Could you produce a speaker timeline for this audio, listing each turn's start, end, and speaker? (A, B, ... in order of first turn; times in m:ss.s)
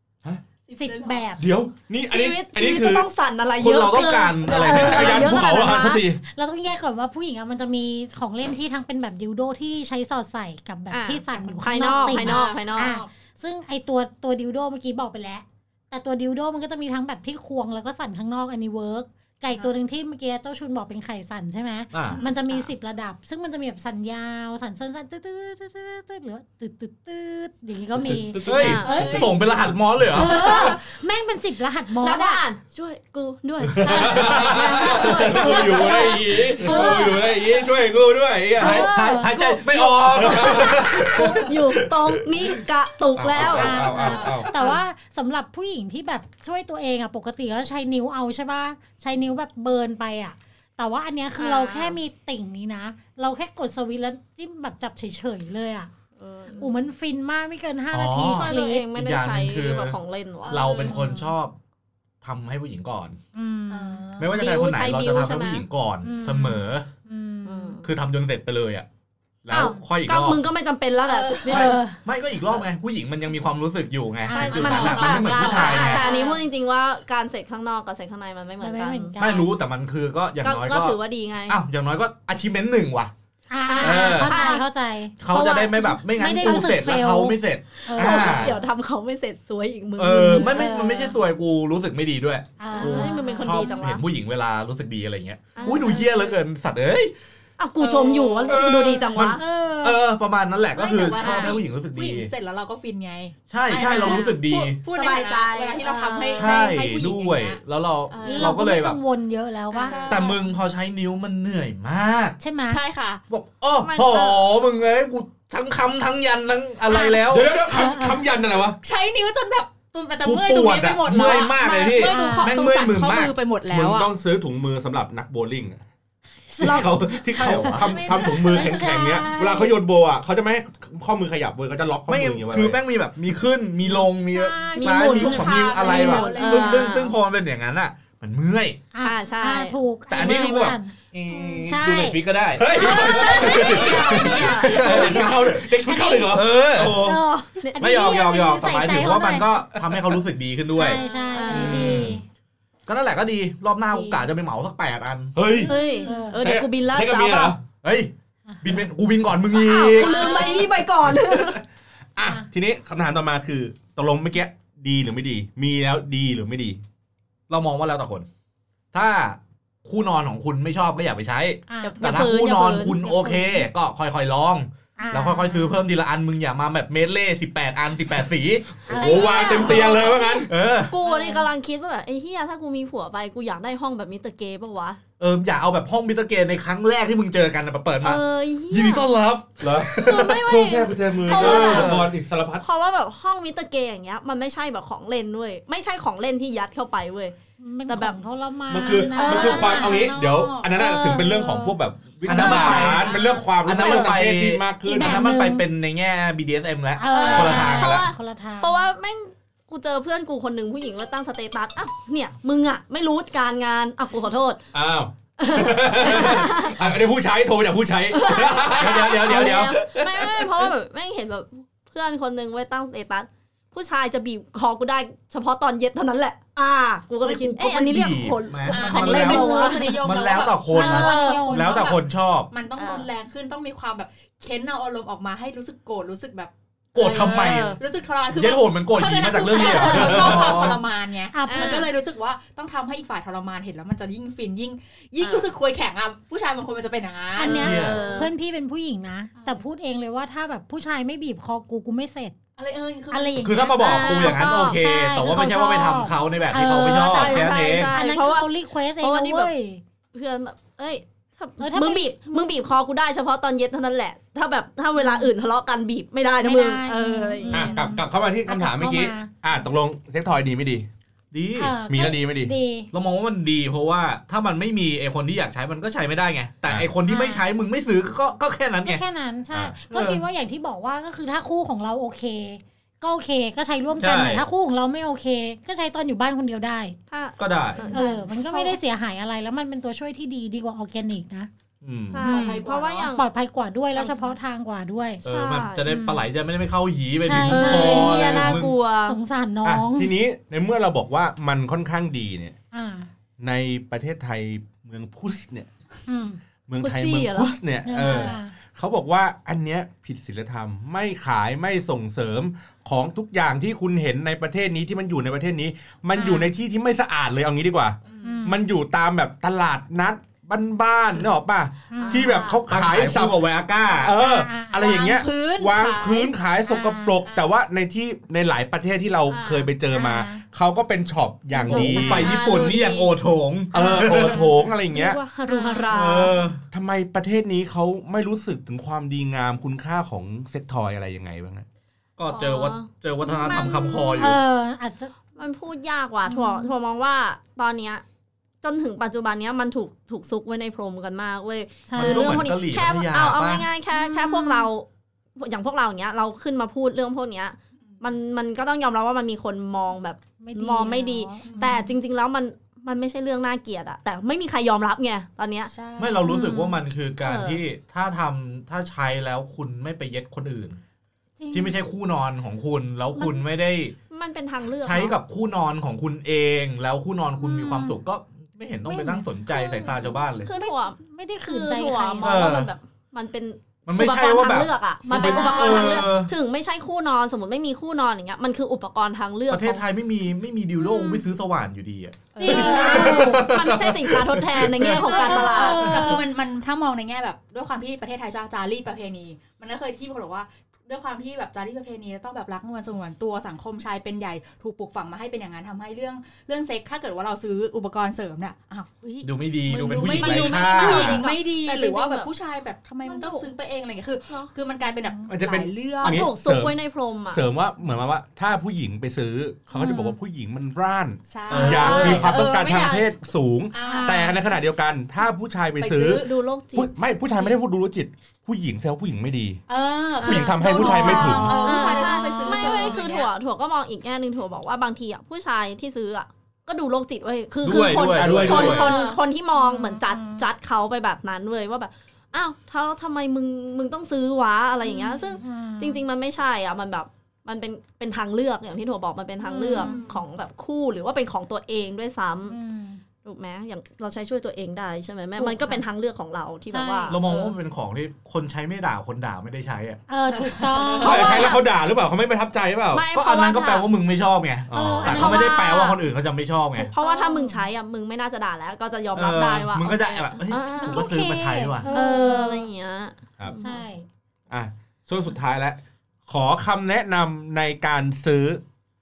0:00.6-0:01.3 A
0:00.7-0:01.4 B
0:01.4-0:03.1 C
0:02.1-0:06.0 D
0:03.6-0:05.5 E
0:04.0-0:29.5 B
0:04.6-0:06.2 C
0:10.9-0:12.9 D
0:11.8-0:13.1 A
0:21.9-0:22.2 E
0:22.1-0:22.6 A
0:28.0-0:29.3 C
0:28.4-0:30.6 E
0:28.5-0:29.1 D
0:30.1-0:32.4 B
0:30.2-0:30.8 D
0:32.0-0:37.6 D
0:33.7-0:35.5 E
0:33.8-0:38.9 C
0:34.1-0:37.2 B
0:38.6-0:42.4 E
0:38.6-0:39.6 B
0:40.1-0:40.8 D
0:40.1-0:41.4 C
0:41.4-0:43.9 D
0:43.2-0:44.3 E
0:43.2-0:44.5 C
0:43.4-0:55.9 B
0:51.4-0:52.0 D
0:56.2-0:56.7 D
0:56.6-0:58.9 B
0:57.9-1:00.0 E
0:58.2-1:00.9 D
1:00.5-1:01.2 A
1:00.5-1:01.6 E
1:00.8-1:01.3 B
1:02.2-1:03.2 E
1:03.3-1:04.1 B
1:03.7-1:04.4 A
1:04.2-1:06.9 E
1:04.4-1:05.6 D
1:06.0-1:07.8 B
1:07.5-1:07.8 D
1:07.8-1:08.9 E
1:09.4-1:10.4 E
1:09.5-1:11.8 D
1:11.0-1:11.8 A
1:11.5-1:16.0 E
1:11.5-1:11.9 B
1:14.3-1:16.4 B
1:14.3-1:19.2 D
1:14.4-1:16.4 A
1:18.6-1:19.5 B
1:19.2-1:21.0 E
1:20.4-1:21.6 D
1:21.5-1:23.1 E
1:23.5-1:25.2 B
1:23.7-1:24.6 D
1:23.8-1:24.4 E
1:25.2-1:28.6 E
1:25.2-1:25.8 D
1:25.8-1:28.6 B
1:27.9-1:30.6 D
1:30.0-1:37.1 E
1:30.2-1:31.2 B
1:32.6-1:33.9 B
1:32.7-1:34.0 D
1:35.6-1:36.4 D
1:37.6-1:39.4 D
1:38.1-1:38.6 A
1:38.5-1:42.3 E
1:39.2-1:40.0 B
1:40.8-1:47.6 A
1:41.1-1:41.6 D
1:43.5-1:44.8 E
1:43.7-1:46.7 D
1:46.3-1:49.0 E
1:48.1-1:48.6 A
1:48.2-1:50.4 B
1:49.7-1:50.3 A
1:49.8-1:50.3 D
1:50.1-1:52.4 E
1:52.4-1:52.8 B
1:52.7-1:53.2 A
1:53.3-1:57.6 E
1:53.8-1:54.4 D
1:56.9-1:58.2 B
1:57.2-1:58.8 C
1:58.8-2:04.1 A
2:00.2-2:03.3 E
2:01.8-2:02.6 B
2:03.7-2:05.8 C
2:06.5-2:09.8 B
2:06.6-2:12.8 C
2:06.6-2:08.3 E
2:12.1-2:18.8 E
2:13.9-2:15.4 B
2:14.8-2:17.2 D
2:15.0-2:17.0 A
2:18.9-2:21.0 B
2:19.0-2:20.2 D
2:20.1-2:25.6 E
2:21.3-2:21.6 D
2:21.6-2:22.2 B
2:22.6-2:27.2 C
2:22.7-2:25.3 D
2:23.0-2:24.6 A
2:24.7-2:29.5 B
2:26.3-2:27.2 E
2:27.6-2:28.1 D
2:27.8-2:31.0 E
2:30.7-2:32.2 B
2:30.8-2:32.0 D
2:30.9-2:31.5 A
2:31.5-2:32.2 C
2:31.5-2:32.2 E
2:32.9-2:35.4 E
2:33.9-2:34.2 B
2:35.4-2:35.7 C
2:35.5-2:36.3 A
2:35.6-2:36.4 B
2:35.7-2:37.6 D
2:36.4-2:37.6 C
2:37.8-2:38.1 E
2:38.6-2:40.3 E
2:39.5-2:41.6 D
2:40.1-2:40.6 A
2:40.2-2:40.7 B
2:41.1-2:41.6 C
2:42.2-2:46.8 C
2:47.5-2:48.3 E
2:48.9-2:59.2 E
2:51.7-2:52.0 B
2:51.8-2:53.6 D
2:55.0-2:55.8 B
2:58.9-3:00.5 C
2:59.0-3:00.0 B
2:59.0-3:05.0 D
3:00.5-3:00.9 E
3:01.0-3:01.4 B
3:05.2-3:10.5 E
3:08.0-3:09.1 D
3:09.6-3:12.6 C
3:10.0-3:12.1 D
3:11.2-3:12.1 E
3:12.6-3:17.4 D
3:17.6-3:23.2 B
3:17.9-3:18.2 D
3:18.7-3:25.3 C
3:19.0-3:20.0 D
3:19.4-3:20.4 A
3:22.2-3:23.1 E
3:22.9-3:23.4 A
3:23.6-3:28.1 E
3:23.8-3:24.1 D
3:24.9-3:25.6 B
3:27.0-3:28.9 B
3:27.1-3:34.6 D
3:34.7-3:40.7 C
3:35.4-3:36.8 D
3:38.1-3:50.1 D
3:38.8-3:39.8 E
3:47.2-3:52.5 E
3:48.7-4:08.3 A
3:49.0-3:50.0 B
3:50.7-3:51.8 B
3:50.8-3:51.5 D
3:52.8-3:53.1 D
3:56.9-3:57.8 E
3:57.0-3:57.8 D
3:58.3-4:00.8 E
3:59.6-4:00.5 D
3:59.9-4:00.8 C
4:01.3-4:01.9 B
4:01.5-4:01.9 D
4:05.2-4:05.5 D
4:07.4-4:12.4 B
4:07.4-4:08.3 D
4:07.5-4:08.0 E
4:09.4-4:09.6 A
4:12.6-4:13.5 A
4:13.1-4:19.8 B
4:13.4-4:17.9 E
4:13.8-4:14.5 D
4:16.7-4:19.5 D
4:20.1-4:27.8 D
4:21.6-4:22.3 B
4:25.0-4:25.3 B
4:26.4-4:29.3 B
4:27.5-4:30.9 C
4:31.3-4:31.8 E
4:31.6-4:32.9 B
4:31.9-4:32.5 C
4:32.9-4:39.0 E
4:37.1-4:37.5 B
4:38.8-4:47.0 B
4:39.9-4:40.2 E
4:44.0-4:44.5 E
4:47.1-4:48.8 D
4:47.4-4:47.8 E
4:47.9-4:51.5 B
4:51.8-4:52.3 E
4:52.1-4:53.2 D
4:52.2-4:53.1 A
4:52.2-4:55.2 B
4:55.2-4:58.7 E
4:55.2-4:55.9 D
4:55.8-4:56.3 B
4:57.2-5:00.1 B
4:57.5-4:59.2 D
4:59.7-5:02.6 C
5:02.7-5:03.1 B
5:03.4-5:05.7 C
5:06.1-5:06.4 B
5:06.7-5:23.4 C
5:06.8-5:07.6 D
5:07.8-5:08.5 B
5:08.0-5:08.4 A
5:16.1-5:16.5 B
5:18.0-5:18.5 A
5:18.2-5:18.6 B
5:21.9-5:22.6 B
5:22.0-5:22.6 A
5:22.7-5:24.2 E
5:24.0-5:32.4 C
5:24.1-5:25.0 B
5:24.8-5:26.3 A
5:26.6-5:27.2 B
5:29.3-5:29.7 D
5:29.9-5:30.4 B
5:31.6-5:32.4 B
5:31.6-5:34.5 E
5:31.8-5:33.1 D
5:33.7-5:35.2 C
5:33.7-5:34.5 B
5:34.1-5:36.4 D
5:35.5-5:36.3 B
5:35.9-5:36.6 E
5:36.7-5:41.7 C
5:42.2-5:44.4 E
5:42.3-5:44.4 D
5:44.2-5:45.1 B
5:45.4-5:48.0 D
5:46.3-5:46.7 B
5:48.6-5:54.9 D
5:51.9-5:52.4 B
5:52.0-5:53.7 E
5:53.9-5:54.7 B
5:55.4-6:05.7 D
6:00.4-6:01.9 B
6:01.4-6:01.8 A
6:05.7-6:06.4 A
6:06.0-6:10.8 E
6:06.2-6:06.8 B
6:07.2-6:07.6 D
6:11.4-6:11.8 B
6:11.5-6:14.0 E
6:13.2-6:13.4 D
6:14.1-6:15.2 D
6:14.8-6:20.5 E
6:17.4-6:18.0 B
6:18.9-6:19.3 B
6:19.5-6:29.8 D
6:20.5-6:22.4 B
6:22.2-6:22.7 E
6:23.9-6:26.3 E
6:25.2-6:26.1 B
6:29.5-6:35.0 E
6:30.8-6:31.2 B
6:32.4-6:33.3 A
6:32.4-6:33.6 B
6:32.4-6:36.2 D
6:34.9-6:36.2 B
6:35.0-6:56.3 A
6:49.2-6:51.2 E
6:49.7-6:52.3 D
6:50.8-6:51.2 C
6:53.0-6:53.5 D
6:55.3-6:56.8 C
6:56.0-6:57.4 D
6:57.3-7:09.6 C
6:59.7-7:00.2 B
7:01.3-7:02.7 A
7:01.5-7:02.2 E
7:01.5-7:03.1 D
7:03.7-7:04.3 A
7:03.8-7:04.4 B
7:05.8-7:06.3 A
7:06.0-7:06.9 D
7:09.7-7:13.3 A
7:10.2-7:11.8 C
7:10.2-7:32.6 D
7:10.7-7:13.0 B
7:17.6-7:19.0 E
7:17.7-7:18.9 C
7:18.5-7:19.2 A
7:19.6-7:20.4 B
7:24.8-7:26.0 B
7:29.4-7:30.1 B
7:29.6-7:30.2 A
7:32.5-7:33.0 B
7:33.2-7:37.3 D
7:36.7-7:37.3 B
7:37.1-7:40.0 E
7:40.1-7:41.6 B
7:40.5-7:41.5 A
7:41.0-7:43.0 C
7:41.0-7:41.6 D
7:42.9-7:43.9 D
7:43.1-7:46.9 E
7:44.7-7:45.3 C
7:44.7-7:45.6 B
7:45.1-7:46.0 D
7:46.8-7:47.7 B
7:46.8-7:51.1 D
7:49.2-7:51.9 E
7:50.9-7:52.7 B
7:51.9-7:53.8 D
7:53.6-7:54.1 B
7:54.5-7:58.6 C